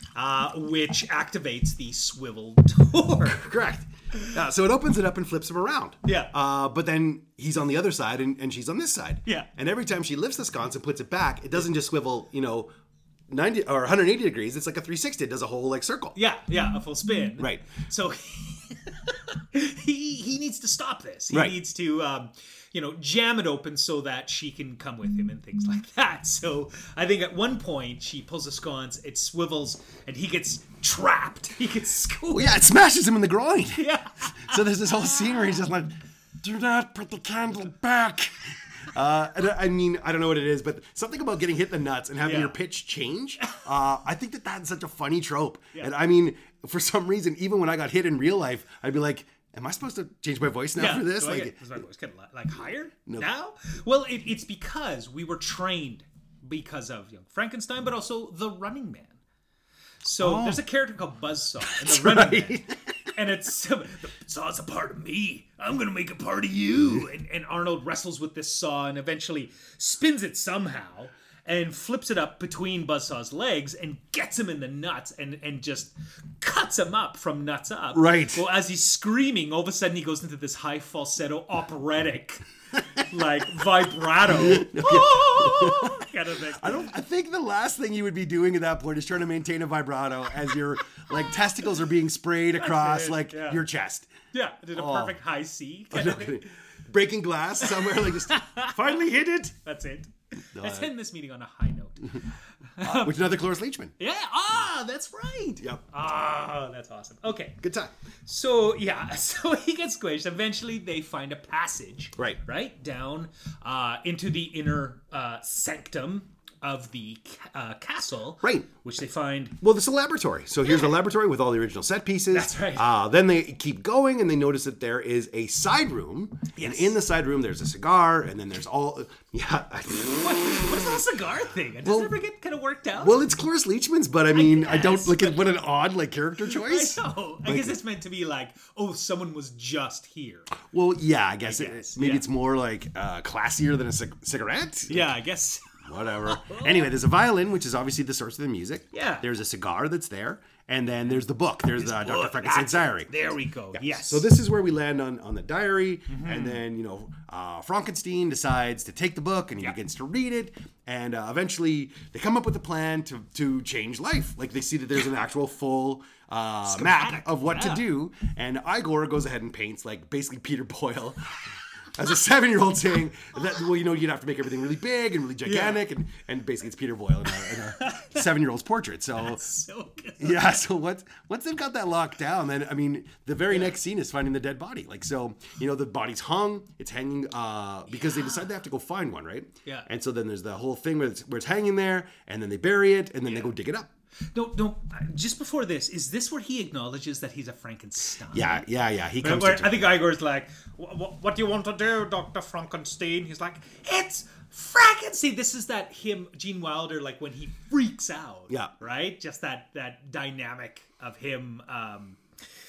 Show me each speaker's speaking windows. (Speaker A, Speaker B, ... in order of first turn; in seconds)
Speaker A: 0.1-3.5, 6.0-6.3, 16.1-32.7, 33.8-35.4, 42.2-42.5, 50.8-59.2, 60.0-86.9, 92.6-93.6, 94.3-96.5, 97.6-99.0, 99.6-103.3, 104.0-107.6, 108.3-119.6, 122.3-122.9, 126.5-127.0, 130.2-133.2, 134.3-135.5, 136.4-140.5, 141.4-142.3, 144.9-146.9, 148.9-149.3, 151.1-154.3, 156.1-156.6, 166.7-167.8, 175.4-175.8, 177.3-178.2, 179.2-180.6, 183.5-183.8, 187.9-188.4, 194.3-198.7, 199.2-212.2
Speaker B: 3.3-12.7, 13.3-16.2, 17.4-17.6, 21.3-21.6, 32.3-51.6, 60.2-60.6, 61.6-62.7, 77.9-78.4, 84.3-94.1, 94.8-95.2, 95.9-99.6, 100.5-100.9, 102.8-103.9, 107.6-107.9, 119.6-131.0, 131.8-132.1, 133.0-137.8, 140.7-145.1, 145.8-153.1, 153.7-171.3, 171.9-179.4, 180.2-193.9, 198.3-200.0